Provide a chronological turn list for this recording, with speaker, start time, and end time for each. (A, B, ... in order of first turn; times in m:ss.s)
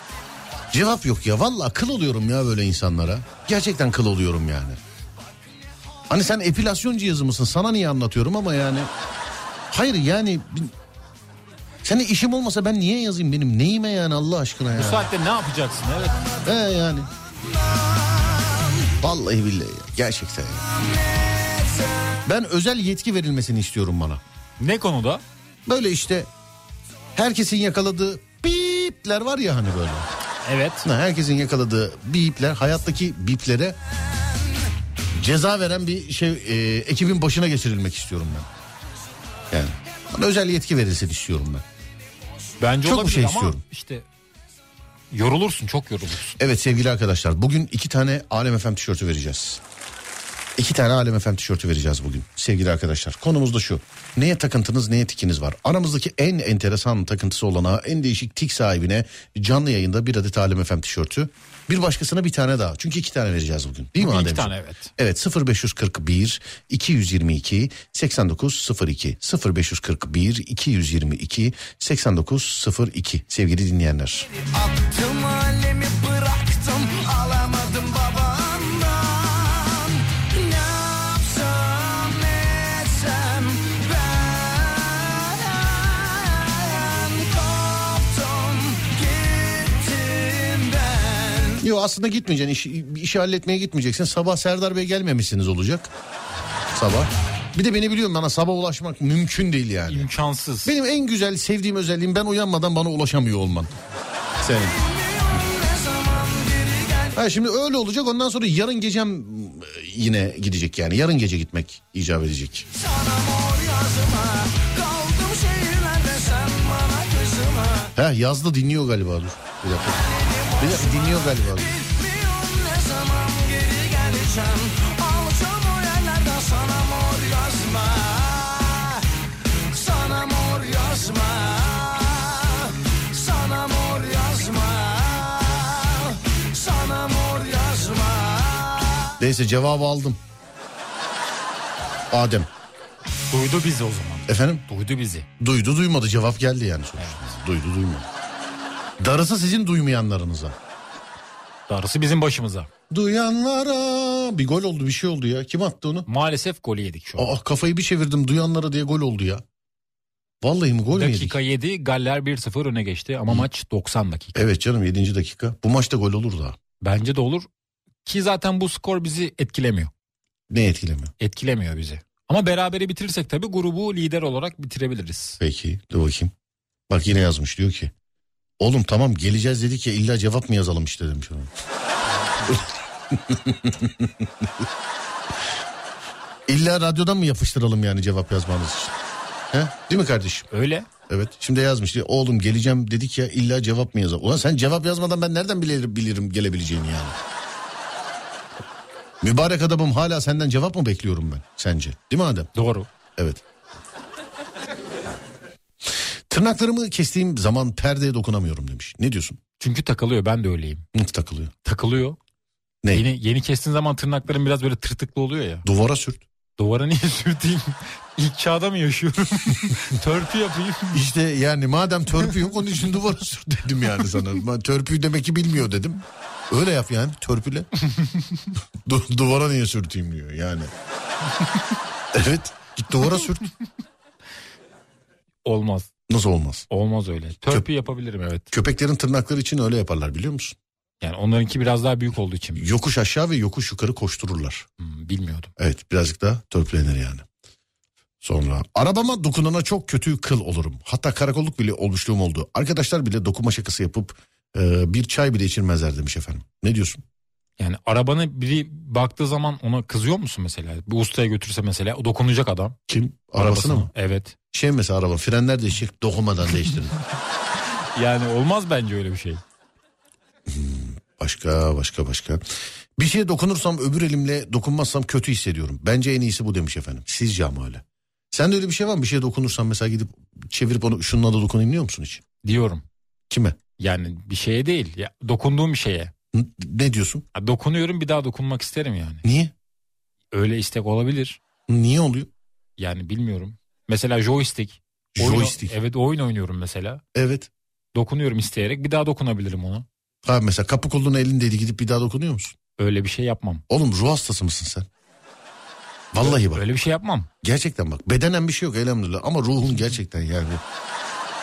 0:00.7-0:04.8 A
0:06.1-0:08.9 A
0:09.7-0:10.7 A
0:11.8-0:15.1 A
0:14.8-0:16.3 B
0:16.4-0:17.1 A
0:19.0-0:20.7 A
0:22.2-0:24.2 A
0:24.6-0:25.2 B
0:25.7-0:26.3 A
0:27.1-0:30.1 A
0:30.4-0:30.9 B
0:30.8-0:33.8 A
0:35.2-0:38.5 A
0:39.5-0:41.6 A
0:42.6-0:44.0 B
0:42.8-0:43.6 A
0:45.1-0:46.4 B
0:46.4-0:49.6 A
0:50.6-1:14.3 A
1:04.0-1:04.9 B
1:14.8-1:18.7 C
1:31.6-1:35.9 A
1:36.7-1:40.1 A
1:39.9-1:40.8 B
1:40.6-1:43.8 A
1:44.4-1:44.8 A
1:47.1-1:52.7 A
1:56.2-1:56.6 C
1:58.0-2:01.8 A
2:10.2-2:11.3 C
2:13.4-2:14.6 C
2:16.7-2:17.7 C
2:19.2-2:20.2 A
2:22.1-2:22.5 A
2:23.3-2:25.3 B
2:24.3-2:24.6 A
2:25.4-2:28.1 A
2:29.0-2:30.6 A
2:31.7-2:32.7 B
2:32.9-2:36.1 A
2:36.1-2:37.4 B
2:37.2-2:39.4 A
2:40.4-2:41.4 A
2:40.9-2:44.4 B
2:44.4-2:46.6 A
2:46.8-2:47.5 B
2:48.1-2:49.9 B
2:50.5-2:51.1 A
2:51.2-2:55.4 B
2:55.4-2:56.3 A
2:56.9-2:57.9 A
2:58.6-3:01.5 A
3:02.3-3:02.6 B
3:02.5-3:04.6 A
3:06.5-3:08.9 A
3:09.5-3:10.5 A
3:10.5-3:10.9 B
3:11.1-3:17.1 A
3:19.2-3:22.5 A
3:22.6-3:22.9 B
3:23.2-3:23.4 A
3:26.3-3:29.4 A
3:29.6-3:30.8 B
3:30.9-3:31.5 A
3:31.6-3:32.2 B
3:32.9-3:35.7 B
3:35.6-3:36.2 A
3:36.6-3:41.0 B
3:40.9-3:47.7 A
3:48.8-3:50.7 A
3:52.1-3:53.5 A
3:55.4-3:55.9 B
3:56.1-3:56.7 A
3:56.7-3:58.5 B
3:58.5-4:00.6 A
4:01.0-4:02.7 B
4:02.6-4:04.7 A
4:04.8-4:05.5 B
4:05.6-4:07.2 A
4:08.2-4:17.0 A
4:17.6-4:22.8 B
4:22.9-4:23.9 A
4:23.4-4:24.4 B
4:24.5-4:26.9 A
4:28.0-4:29.4 B
4:30.5-4:42.2 A
4:42.4-4:42.8 B
4:43.3-4:43.6 A
4:43.8-4:46.1 B
4:46.3-4:47.2 A
4:47.4-4:49.2 B
4:49.2-4:49.5 A
4:50.3-4:51.4 B
4:51.7-4:52.3 A
4:52.8-4:57.0 B
4:55.1-4:55.8 A
4:57.1-4:57.5 A
4:58.0-4:59.9 B
5:00.2-5:02.6 A
5:02.8-5:03.6 B
5:03.7-5:04.9 A
5:06.1-5:06.6 A
5:06.2-5:07.3 B
5:07.4-5:10.6 A